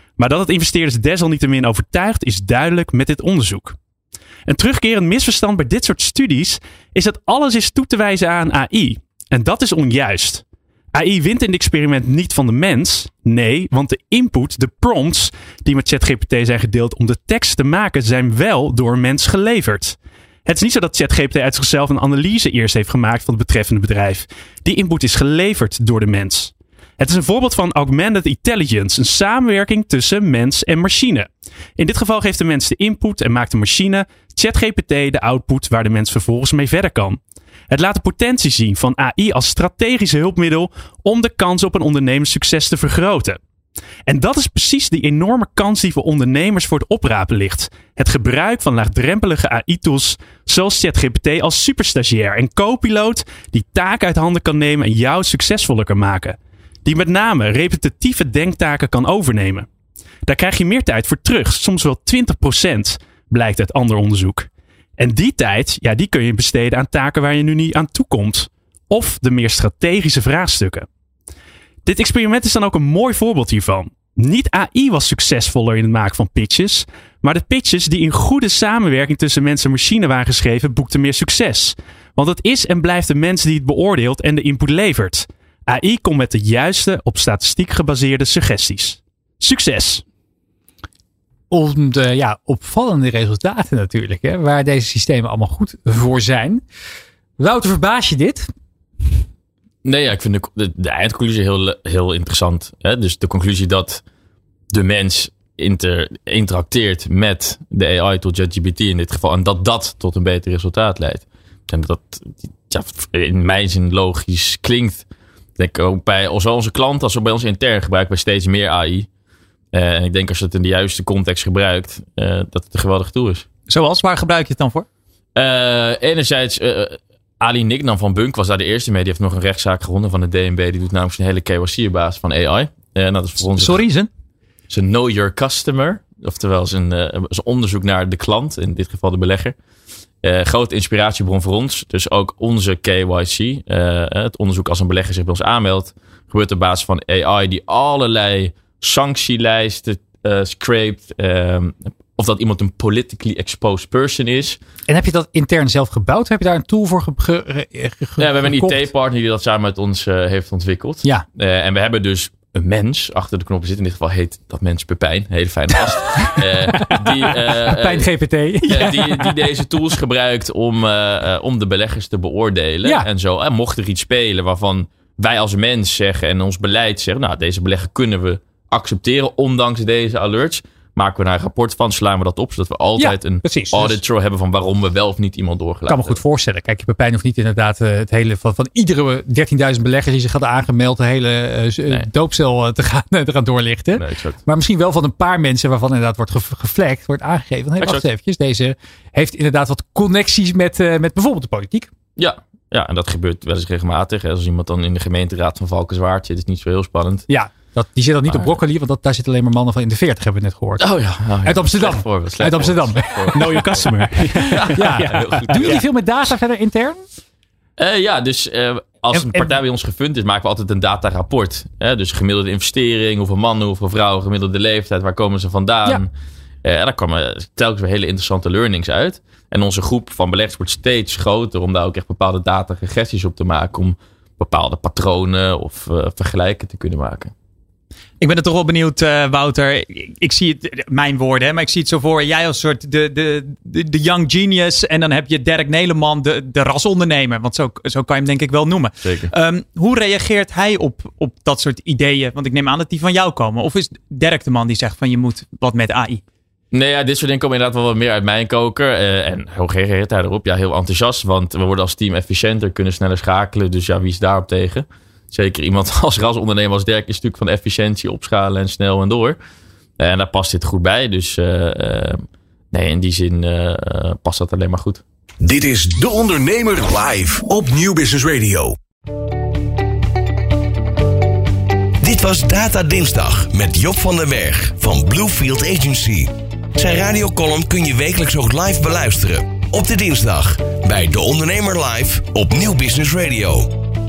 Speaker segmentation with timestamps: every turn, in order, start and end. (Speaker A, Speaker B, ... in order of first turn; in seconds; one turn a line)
Speaker A: 0.2-3.8
Speaker A: 4.5-43.4
Speaker A: 44.0-59.7
Speaker A: 60.2-70.9
Speaker A: 71.8-90.0
Speaker B: 91.5-96.6
Speaker B: 97.4-98.5
Speaker C: 99.8-104.0
Speaker C: 104.7-115.0
Speaker C: 115.6-119.1
Speaker C: 119.7-123.5
Speaker D: 123.7-124.8
Speaker C: 125.3-133.9
Speaker D: 133.6-134.1
Speaker C: 134.7-139.6
Speaker C: 140.2-154.6
Speaker B: 154.9-158.9
Speaker C: 158.2-168.1
Speaker B: 166.5-169.4
Speaker C: 168.6-186.2
Speaker B: 183.0-184.0
Speaker B: 185.9-201.9
Speaker C: 194.0-194.4
Speaker C: 202.2-207.2
Speaker B: 207.3-217.0
Speaker C: 210.8-215.8
Speaker A: 213.4-215.7
Speaker C: 217.8-226.1
Speaker B: 219.1-219.5
Speaker C: 226.6-237.3
Speaker D: 238.2-256.1
Speaker C: 249.0-249.3
Speaker C: 256.7-269.4
Speaker C: 270.0-272.2
Speaker C: 272.7-275.0
Speaker E: 275.4-278.8
Speaker F: 282.0-293.7